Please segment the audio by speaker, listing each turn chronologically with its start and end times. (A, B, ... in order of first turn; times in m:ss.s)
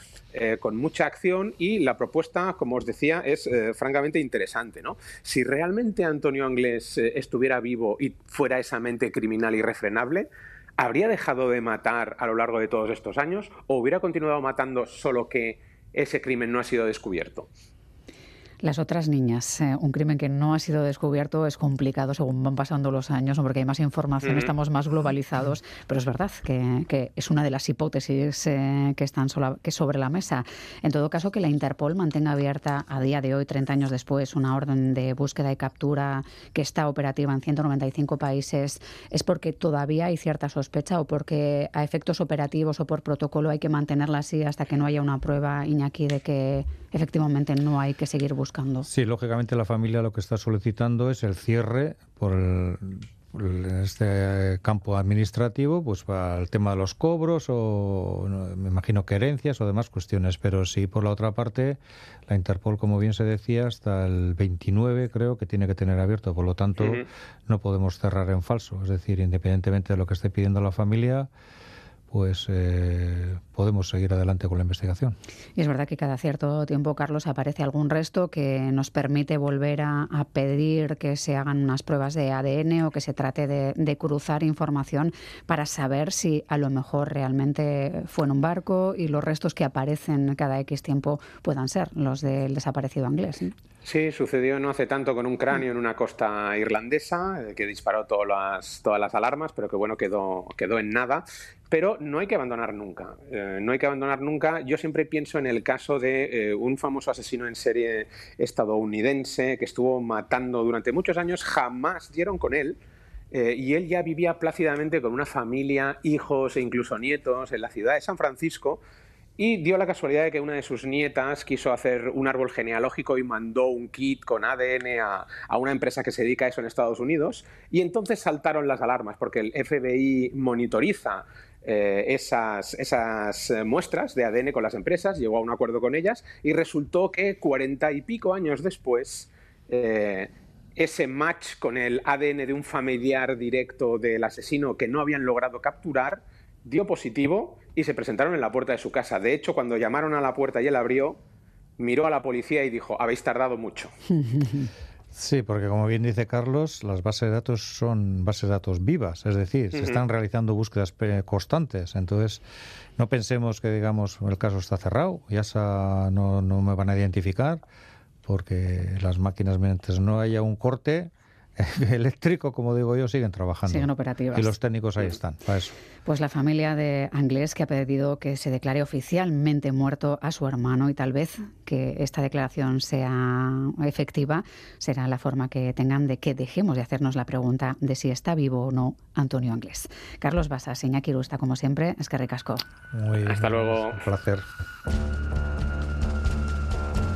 0:00.3-0:17.5 A
0:18.6-0:48.9 B
0:24.2-0:24.5 A
0:48.9-1:11.3 C
1:06.8-1:07.1 A
1:12.1-1:15.2 C
1:15.6-1:33.6 B
1:33.8-1:52.8 A
1:53.3-1:58.8 A
1:59.4-2:31.2 A
2:31.8-2:33.9 A
2:35.1-2:42.4 C
2:39.7-2:40.0 A
2:43.0-2:47.6 C
2:48.2-2:55.8 C
2:53.7-2:54.5 B
2:56.1-3:12.6 B
3:12.9-3:14.4 C
3:13.3-3:14.0 A